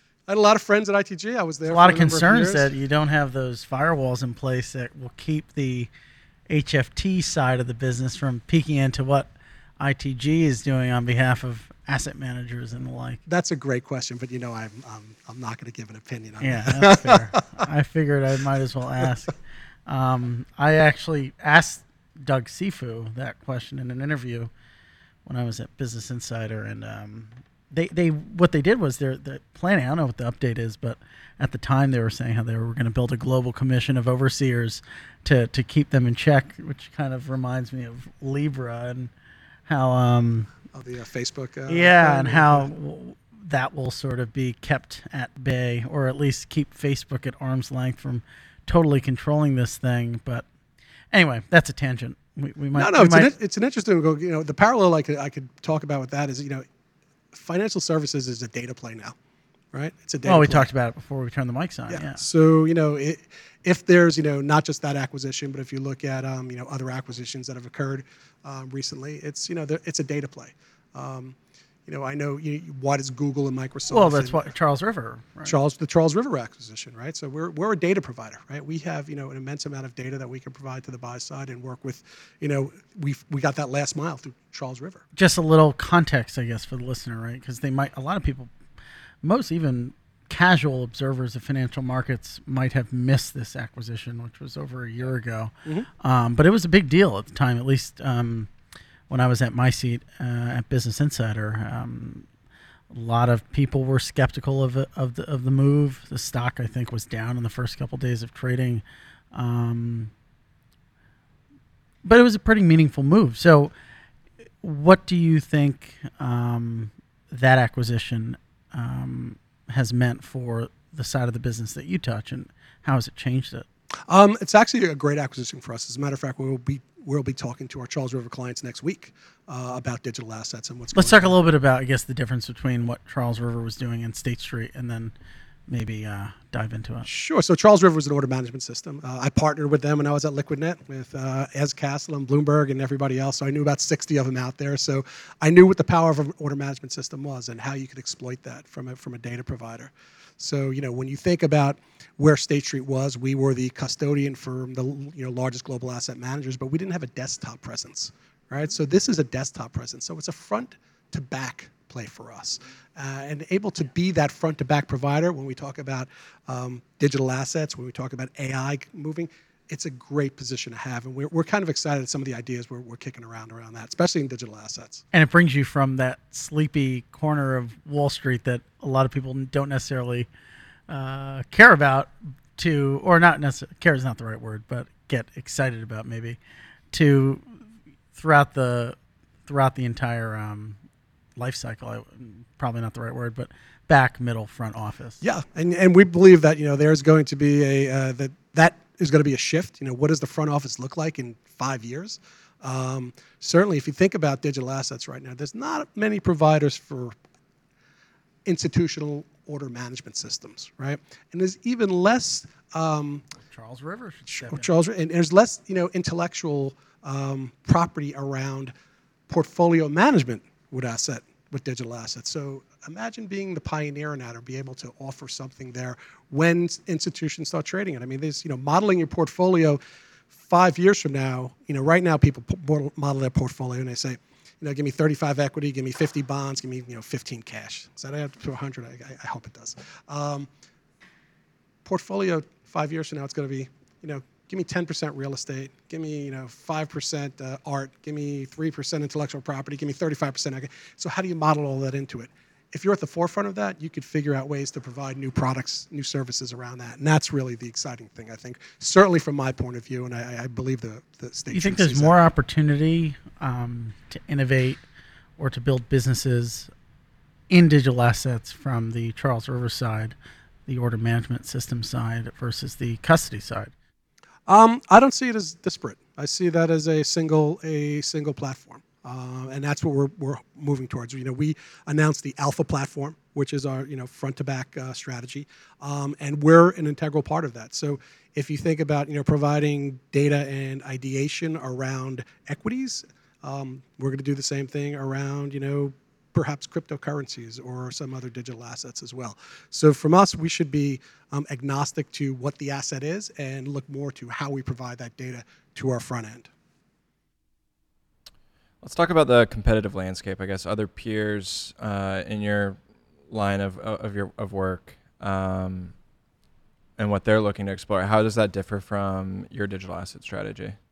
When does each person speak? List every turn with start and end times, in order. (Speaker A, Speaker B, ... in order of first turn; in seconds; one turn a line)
Speaker A: 0.3-2.7
Speaker B: 1.6-5.9
Speaker B: 6.5-13.2
Speaker A: 13.2-17.4
Speaker B: 16.4-19.3
Speaker B: 19.9-24.5
Speaker B: 25.2-39.1
Speaker B: 39.6-40.5
Speaker A: 40.7-42.7
Speaker B: 41.7-50.5
Speaker B: 51.1-53.3
Speaker A: 52.7-56.6
Speaker A: 57.3-59.1
Speaker A: 59.7-60.7
Speaker B: 60.2-62.2
Speaker A: 61.9-74.4
Speaker B: 73.9-75.5
Speaker A: 75.4-85.0
Speaker B: 85.1-88.5
Speaker B: 89.2-98.5
Speaker B: 99.1-102.3
Speaker B: 102.9-110.1
Speaker B: 112.0-113.7
Speaker B: 114.6-123.7
Speaker A: 124.1-131.3
Speaker B: 130.9-135.1
Speaker B: 135.7-137.1
Speaker A: 137.0-175.0
Speaker B: 175.1-180.3
Speaker B: 180.9-186.4
Speaker B: 186.9-187.6
Speaker B: 188.1-190.8
Speaker B: 191.4-195.2
Speaker A: 195.2-207.1
Speaker A: 208.4-213.3
Speaker B: 213.4-214.7
Speaker A: 214.3-218.7
Speaker A: 219.3-229.8
Speaker A: 230.3-240.5
Speaker A: 241.8-262.1
Speaker B: 261.5-264.8
Speaker B: 265.4-266.7
Speaker B: 267.5-270.1
Speaker B: 270.7-273.7
Speaker A: 274.5-306.5
Speaker C: 308.8-315.9
Speaker C: 317.0-320.8